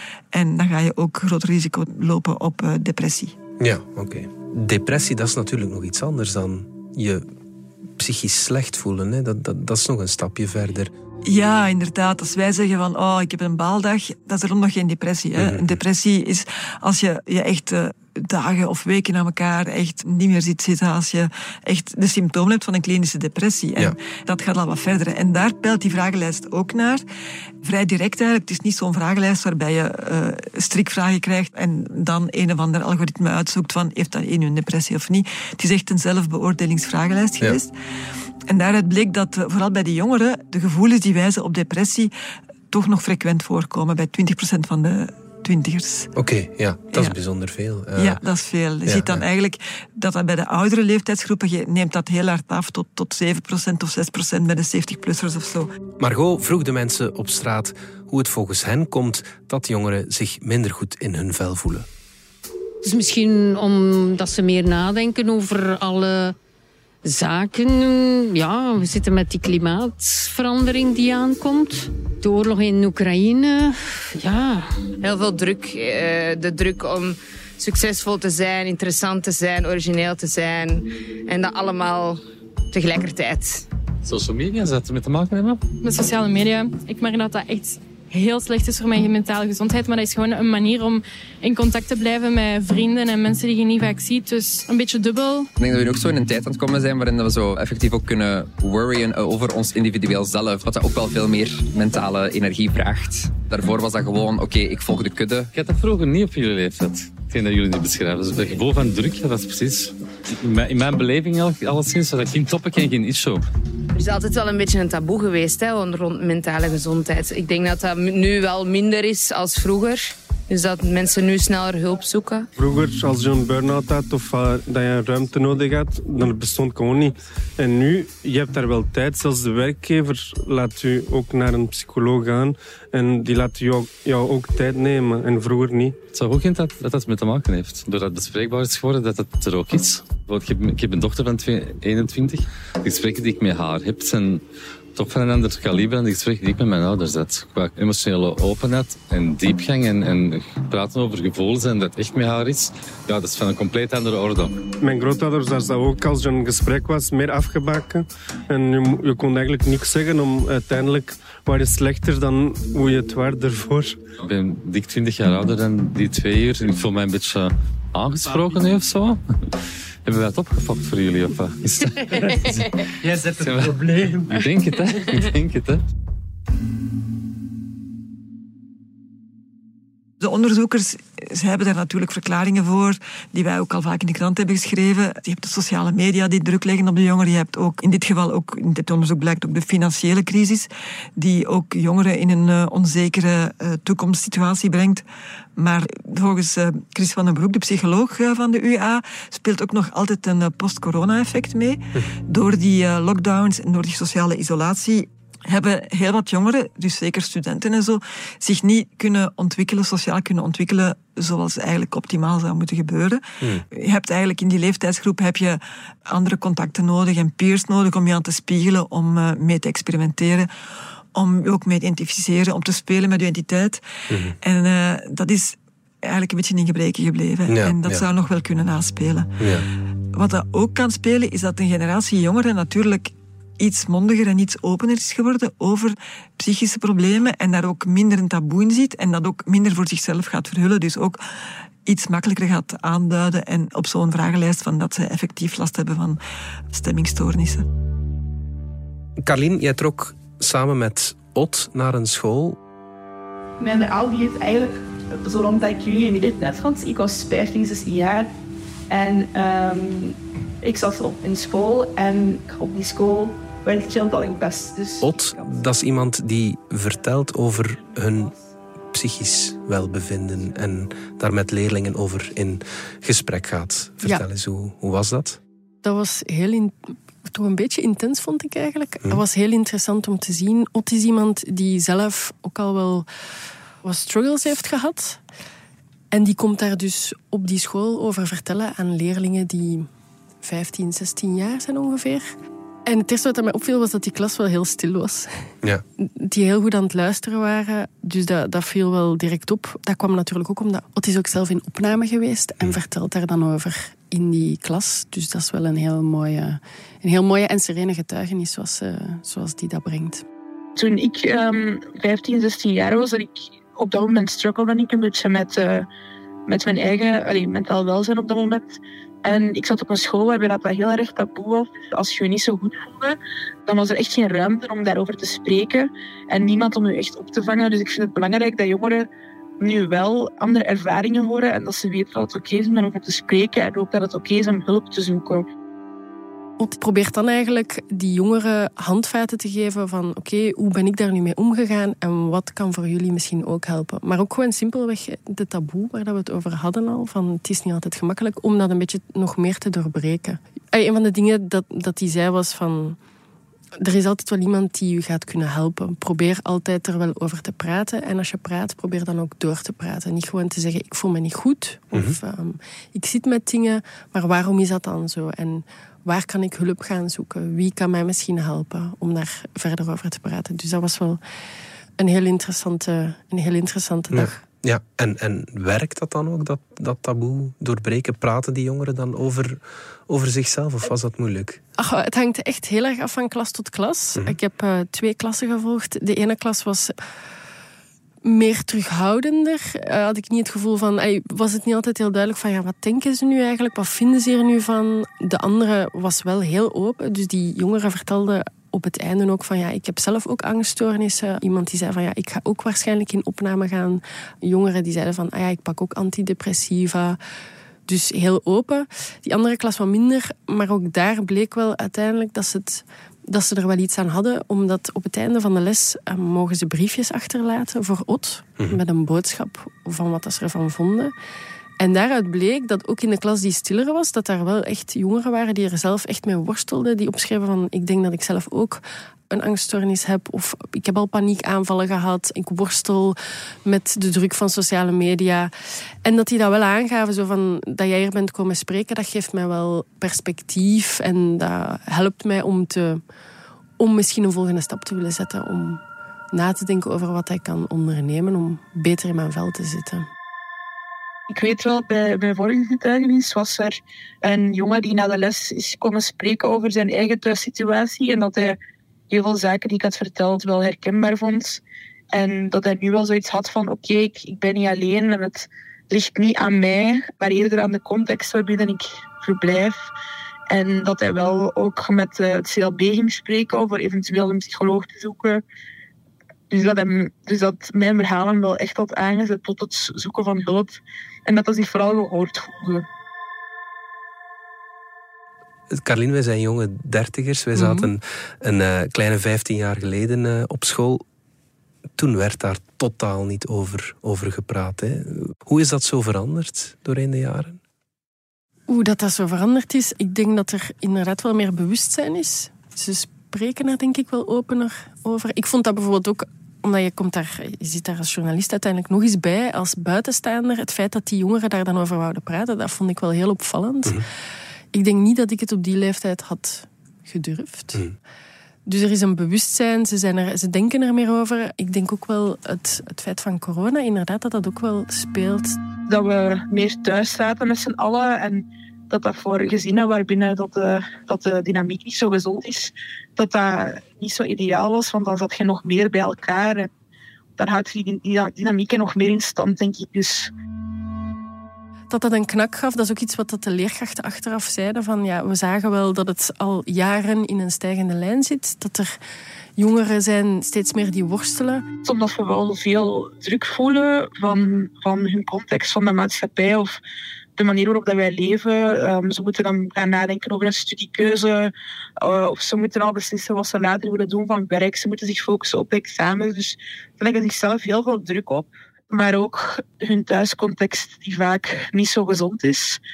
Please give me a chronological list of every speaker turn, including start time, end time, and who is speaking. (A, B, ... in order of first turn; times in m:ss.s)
0:00.3-0:03.4 A
0:03.6-0:07.2 B
0:08.0-0:10.9 B
0:11.2-0:27.0 A
0:15.4-0:15.8 B
0:27.6-0:37.7 A
0:38.5-0:42.1 A
0:42.7-0:46.1 A
0:46.2-0:48.2 B
0:48.0-0:55.7 A
0:48.9-0:49.2 B
0:56.0-1:01.9 B
1:02.8-1:06.4 C
1:07.0-1:14.7 C
1:15.0-1:22.2 D
1:22.7-1:23.6 D
1:24.0-1:25.6 E
1:25.8-1:35.5 F
1:35.6-1:45.5 G
1:45.5-1:53.4 E
1:54.0-2:02.5 D
2:02.6-2:16.0 H
2:16.1-2:24.4 E
2:25.0-2:34.6 E
2:34.8-2:44.0 H
2:44.2-2:49.2 E
2:50.0-2:52.8 E
2:53.0-2:54.3 H
2:53.4-2:55.8 E
3:00.2-3:15.0 A
3:15.6-3:40.5 A
3:41.1-3:43.8 A
3:44.1-3:44.4 B
3:44.4-3:49.4 A
3:47.5-3:48.0 B
3:49.4-3:49.7 B
3:50.1-4:01.2 A
4:01.8-4:06.2 A
4:06.7-4:07.6 A
4:09.2-4:12.6 B
4:13.6-4:14.7 I
4:15.2-4:18.3 I
4:18.9-4:20.1 I
4:20.6-4:24.9 I
4:25.0-4:28.4 B
4:28.9-4:35.4 B
4:35.8-4:43.1 J
4:43.8-4:45.2 J
4:46.1-4:49.9 J
4:50.4-4:52.3 J
4:52.9-4:55.3 J
4:56.0-5:10.2 J
5:10.8-5:15.9 I
5:16.5-5:29.1 I
5:29.6-5:35.4 I
5:36.6-5:53.0 J
5:53.8-6:11.2 J
6:12.0-6:14.4 J
6:14.1-6:21.6 B
6:21.8-6:26.9 J
6:28.2-6:47.2 J
6:47.9-7:01.1 J
7:01.8-7:15.5 J
7:16.0-7:23.0 J
7:23.8-7:25.8 J
7:26.3-7:30.1 J
7:31.3-7:38.6 I
7:39.1-7:49.9 I
7:50.5-7:55.4 I
7:56.5-8:02.8 I
8:05.7-8:11.0 B
8:07.6-8:07.9 J
8:12.0-8:17.6 B
8:18.7-8:34.0 J
8:34.7-8:37.8 J
8:38.7-8:45.6 J
8:45.9-8:56.7 I
8:57.4-9:00.3 I
9:01.9-9:09.0 J
9:09.6-9:11.6 J
9:11.8-9:16.8 I
9:17.4-9:32.8 I